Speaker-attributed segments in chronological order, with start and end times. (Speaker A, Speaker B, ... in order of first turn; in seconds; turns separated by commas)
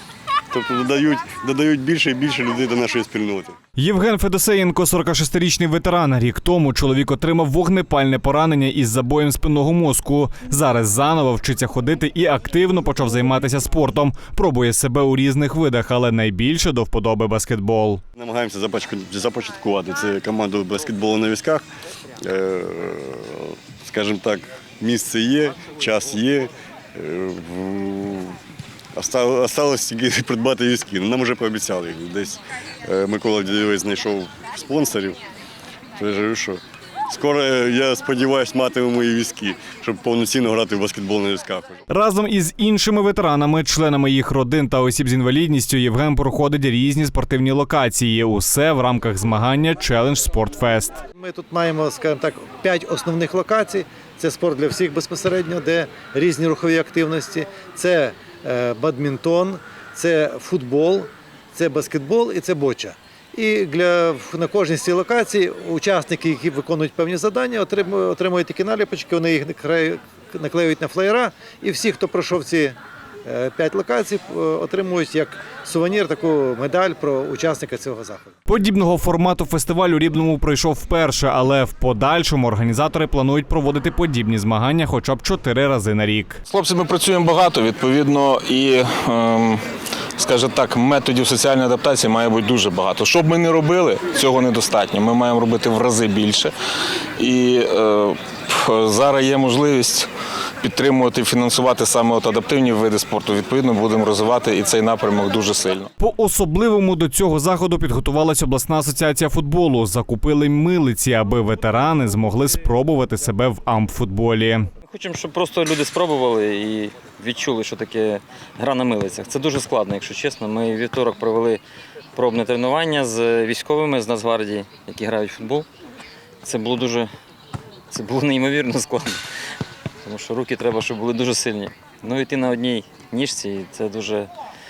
Speaker A: 0.5-3.5, Speaker B: 3.8-18.0, Speaker A: 18.2-21.6, Speaker A: 22.2-28.4, Speaker A: 28.9-35.2, Speaker A: 36.0-41.8, Speaker B: 41.9-51.0, Speaker C: 51.2-78.4, Speaker B: 78.5-86.4, Speaker D: 86.5-89.6, Speaker D: 90.2-96.5, Speaker D: 97.2-100.1, Speaker D: 100.6-105.9, Speaker B: 106.0-114.7, Speaker E: 114.9-121.6, Speaker E: 122.2-125.7, Speaker E: 126.4-127.1, Speaker E: 127.9-129.2, Speaker E: 130.0-134.3